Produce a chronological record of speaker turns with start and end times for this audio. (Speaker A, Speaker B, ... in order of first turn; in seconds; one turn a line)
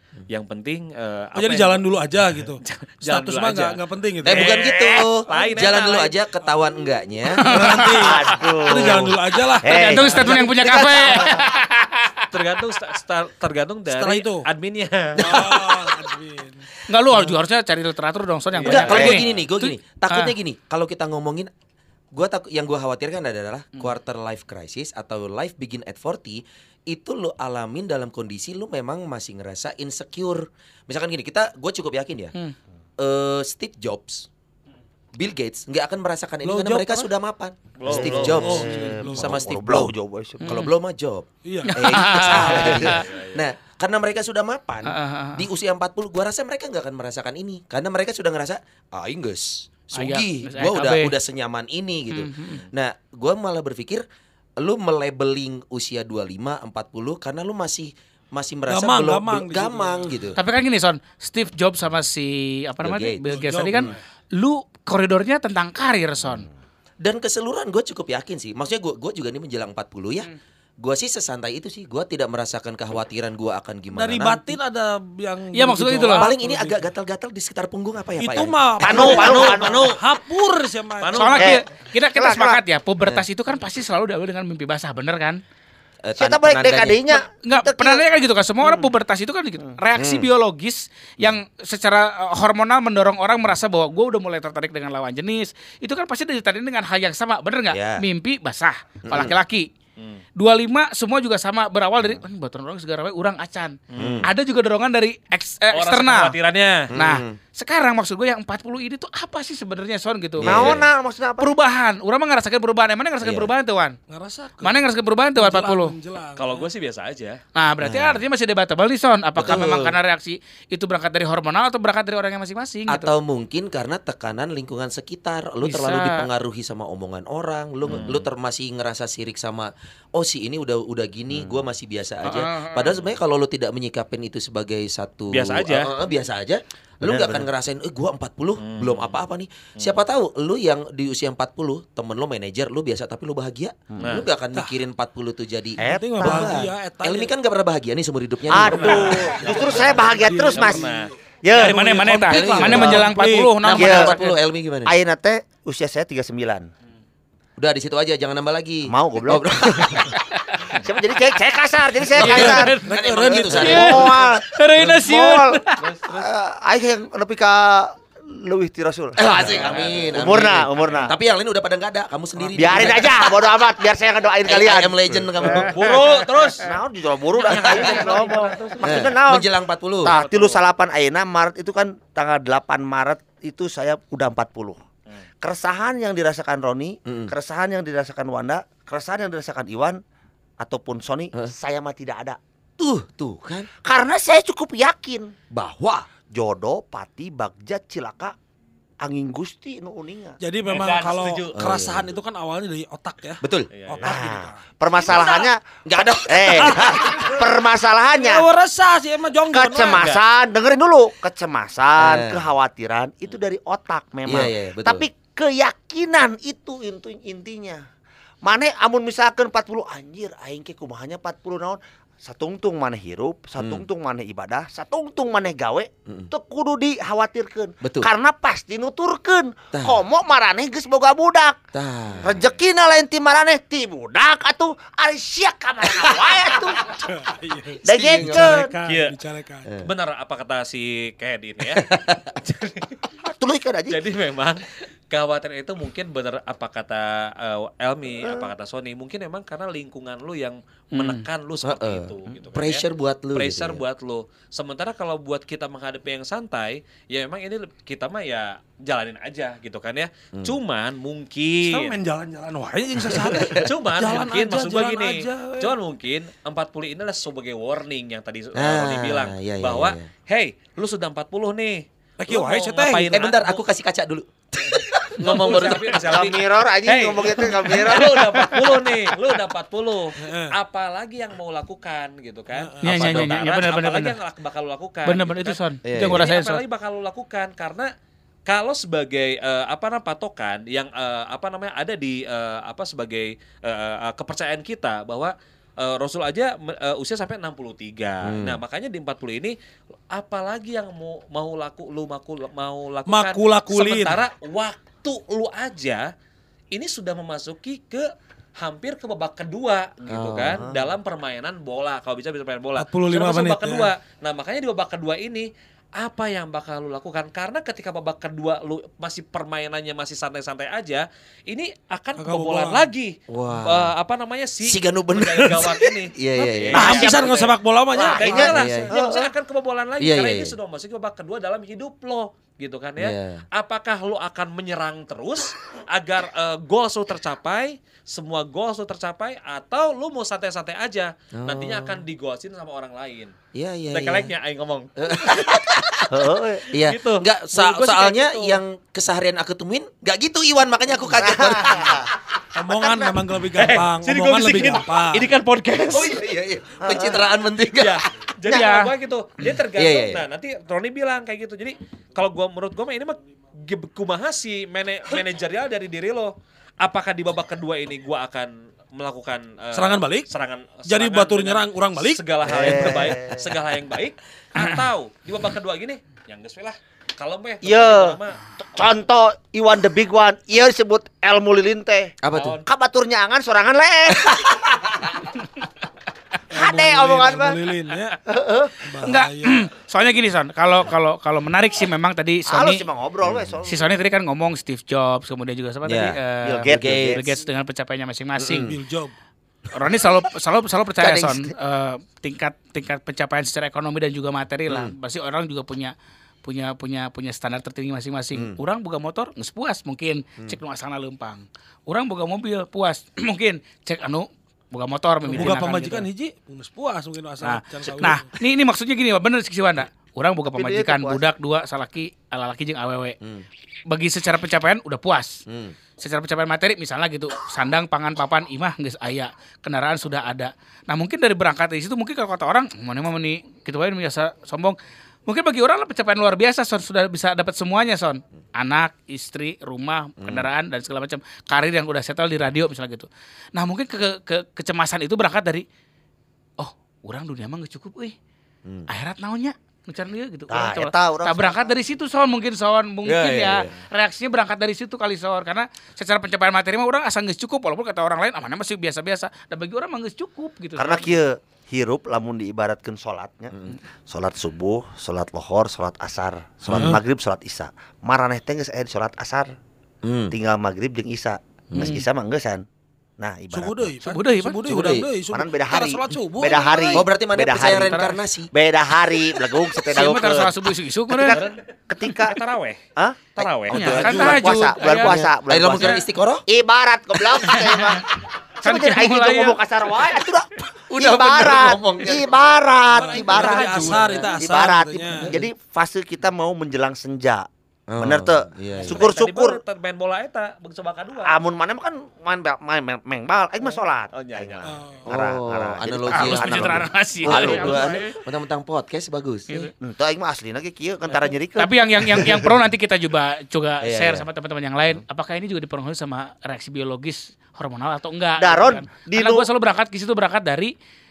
Speaker A: 0.3-1.8
Speaker B: 1.4-4.6
Speaker A: 2.6-6.2
Speaker C: 4.2-7.5
Speaker B: 7.4-10.4
Speaker D: 7.4-8.4
Speaker E: 7.9-11.5
Speaker D: 9.6-12.2
Speaker A: 12.3-15.6
Speaker B: 13.9-14.5
Speaker B: 15.2-16.7
Speaker D: 15.3-15.7
Speaker D: 16.9-20.3
Speaker A: 18.5-19.4
Speaker C: 18.6-21.5
Speaker E: 18.9-19.2
Speaker C: 22.1-32.3
Speaker C: 33.0-34.3
Speaker C: 35.2-39.9
Speaker B: 36.4-37.1
Speaker A: 37.8-38.6
Speaker E: 37.9-40.5
Speaker B: 38.1-39.3
Speaker D: 40.4-40.7
Speaker C: 40.5-54.0
Speaker B: 41.5-41.8
Speaker D: 41.7-43.1
Speaker A: 42.4-43.4
Speaker D: 44.9-45.5
Speaker D: 49.9-51.1
Speaker D: 52.1-52.6
Speaker C: 54.6-60.4
Speaker B: 58.7-60.1
Speaker D: 60.4-66.5
Speaker C: 62.8-63.4
Speaker B: 63.3-64.0
Speaker C: 67.0-70.3
Speaker C: 70.8-74.5
Speaker B: 73.9-76.8
Speaker D: 75.5-76.3
Speaker C: 76.1-79.8
Speaker B: 78.2-81.6
Speaker E: 78.8-80.0
Speaker A: 81.0-81.5
Speaker D: 81.1-85.4
Speaker E: 82.2-82.6
Speaker C: 86.0-87.0
Speaker E: 86.2-88.0
Speaker D: 87.2-99.7
Speaker C: 90.0-90.3
Speaker C: 97.7-98.0
Speaker C: 99.1-99.3
Speaker D: 100.4-106.3
Speaker A: 103.9-104.2
Speaker C: 104.0-104.3
Speaker A: 105.7-106.9
Speaker C: 106.9-107.4
Speaker D: 107.0-110.7
Speaker C: 110.4-110.9
Speaker E: 110.4-111.5
Speaker D: 111.4-114.0
Speaker C: 113.2-113.5
Speaker B: 114.1-114.8
Speaker D: 114.6-115.9
Speaker B: 115.4-116.7
Speaker A: 116.4-117.4
Speaker D: 117.5-123.1
Speaker C: 117.8-118.2
Speaker C: 119.4-120.0
Speaker C: 122.9-149.3
Speaker D: 125.6-126.3
Speaker A: 127.9-128.2
Speaker D: 132.2-133.0
Speaker A: 135.3-135.9
Speaker E: 137.0-137.5
Speaker A: 138.6-139.2
Speaker E: 143.9-144.2
Speaker A: 144.0-144.3
Speaker B: 145.8-147.3
Speaker E: 145.8-146.6
Speaker E: 148.5-150.9
Speaker B: 148.7-149.6
Speaker A: 149.5-151.1
Speaker B: 150.2-153.6
Speaker E: 151.4-151.9
Speaker D: 151.6-154.2
Speaker C: 152.3-155.0
Speaker E: 152.8-153.0
Speaker E: 153.7-154.1
Speaker E: 154.9-156.7
Speaker C: 157.6-160.2
Speaker E: 158.9-160.2
Speaker D: 160.5-160.7
Speaker E: 160.7-171.2
Speaker C: 162.2-164.1
Speaker D: 162.2-162.6
Speaker B: 162.4-164.2
Speaker A: 162.5-162.8
Speaker D: 163.5-165.8
Speaker A: 165.8-166.3
Speaker C: 169.2-173.3
Speaker A: 169.4-171.0
Speaker E: 172.6-179.5
Speaker C: 174.5-175.8
Speaker A: 175.4-176.7
Speaker A: 177.3-179.1
Speaker C: 178.8-180.2
Speaker E: 180.0-184.8
Speaker A: 180.2-180.6
Speaker E: 185.4-190.0
Speaker C: 187.1-187.3
Speaker E: 190.6-192.4
Speaker C: 192.8-193.7
Speaker E: 193.8-195.3
Speaker C: 195.5-196.1
Speaker E: 196.3-198.3
Speaker E: 199.0-200.4
Speaker B: 200.4-205.3
Speaker A: 200.7-201.7
Speaker C: 201.6-202.1
Speaker C: 203.4-203.7
Speaker A: 203.7-204.2
Speaker E: 204.0-208.5
Speaker C: 205.8-207.3
Speaker B: 206.6-207.4
Speaker B: 208.1-210.1
Speaker E: 209.5-217.8
Speaker A: 209.9-210.2
Speaker C: 212.0-212.5
Speaker C: 214.3-215.1
Speaker E: 218.4-231.6
Speaker C: 223.6-223.8
Speaker C: 227.8-228.1
Speaker C: 229.7-230.0
Speaker C: 231.7-232.4
Speaker E: 232.2-237.0
Speaker B: 236.9-239.7
Speaker E: 237.8-238.7
Speaker C: 237.9-238.6
Speaker A: 238.8-239.2
Speaker A: 239.8-243.0
Speaker C: 241.7-242.3
Speaker E: 243.3-244.0
Speaker A: 243.9-262.0
Speaker D: 250.9-251.2
Speaker C: 251.6-253.8
Speaker B: 261.6-265.7
Speaker C: 263.2-263.6
Speaker A: 263.6-273.6
Speaker C: 268.6-270.1
Speaker B: 272.2-273.2
Speaker C: 273.1-276.1
Speaker A: 275.2-287.9
Speaker E: 275.6-278.6
Speaker B: 280.2-280.6
Speaker B: 282.6-283.0
Speaker D: 282.8-284.2
Speaker C: 282.9-283.3
Speaker D: 285.1-286.6
Speaker C: 285.9-286.2
Speaker A: 288.5-299.6
Speaker C: 298.2-298.6
Speaker A: 300.1-306.1
Speaker B: 303.1-304.2
Speaker A: 306.7-308.1
Speaker A: 308.6-343.3
Speaker C: 310.1-310.7
Speaker B: 312.8-313.9
Speaker B: 322.2-322.9
Speaker C: 323.3-323.9
Speaker C: 324.6-327.0
Speaker B: 326.7-328.9
Speaker E: 326.8-329.3
Speaker C: 328.4-328.9
Speaker C: 330.0-330.6
Speaker C: 333.0-333.4
Speaker C: 341.4-342.0
Speaker C: 343.6-344.3
Speaker A: 343.9-344.9
Speaker C: 345.0-352.1
Speaker E: 346.1-346.6
Speaker A: 346.8-348.6
Speaker E: 351.1-352.1
Speaker B: 352.6-355.3
Speaker E: 352.8-353.1
Speaker A: 353.6-356.1
Speaker C: 355.9-358.0
Speaker E: 356.8-357.2
Speaker A: 357.8-378.4
Speaker D: 358.5-358.9
Speaker C: 359.8-360.2
Speaker B: 369.7-370.3
Speaker B: 370.9-373.0
Speaker E: 372.4-373.4
Speaker D: 374.6-374.8
Speaker E: 377.6-385.3
Speaker C: 382.2-382.6
Speaker A: 382.4-382.6
Speaker B: 386.5-388.2
Speaker E: 386.5-387.6
Speaker E: 388.3-388.8
Speaker B: 388.8-389.7
Speaker D: 389.0-392.8
Speaker E: 392.5-394.0
Speaker C: 393.2-393.6
Speaker D: 393.6-398.7
Speaker C: 395.9-397.2
Speaker E: 396.4-397.3
Speaker C: 398.4-398.8
Speaker B: 398.7-399.1
Speaker D: 399.7-416.1
Speaker E: 401.0-401.5
Speaker C: 408.3-408.6
Speaker B: 415.3-418.3
Speaker D: 417.4-423.2
Speaker E: 420.6-421.2
Speaker C: 423.2-423.5
Speaker D: 423.9-425.4
Speaker C: 425.5-425.8
Speaker D: 426.0-445.6
Speaker C: 440.2-440.5
Speaker D: 446.6-448.1
Speaker D: 448.9-461.1
Speaker E: 450.5-451.7
Speaker C: 453.1-453.7
Speaker E: 460.8-469.5
Speaker C: 466.7-467.0
Speaker C: 470.0-470.3
Speaker E: 470.3-472.6
Speaker C: 471.7-472.0
Speaker E: 473.2-473.9
Speaker B: 473.5-477.0
Speaker D: 474.0-474.6
Speaker C: 474.6-475.1
Speaker E: 475.3-478.0
Speaker C: 476.9-478.5
Speaker D: 477.8-478.2
Speaker E: 478.5-480.5
Speaker D: 479.9-481.4
Speaker E: 481.1-482.4
Speaker A: 481.2-481.6
Speaker A: 482.2-482.8
Speaker E: 483.0-488.1
Speaker A: 483.3-484.3
Speaker D: 483.7-485.1
Speaker C: 483.9-486.4
Speaker E: 488.6-497.5
Speaker D: 488.6-489.6
Speaker C: 490.9-492.3
Speaker A: 492.9-494.3
Speaker B: 492.9-495.3
Speaker D: 493.3-494.3
Speaker C: 497.9-499.1
Speaker E: 498.0-499.6
Speaker A: 498.8-501.4
Speaker E: 501.3-507.8
Speaker A: 503.7-505.0
Speaker B: 504.6-505.1
Speaker C: 505.1-509.5
Speaker D: 506.1-508.0
Speaker A: 507.2-508.1
Speaker E: 509.8-512.4
Speaker D: 511.6-520.7
Speaker C: 513.8-514.3
Speaker E: 518.4-519.5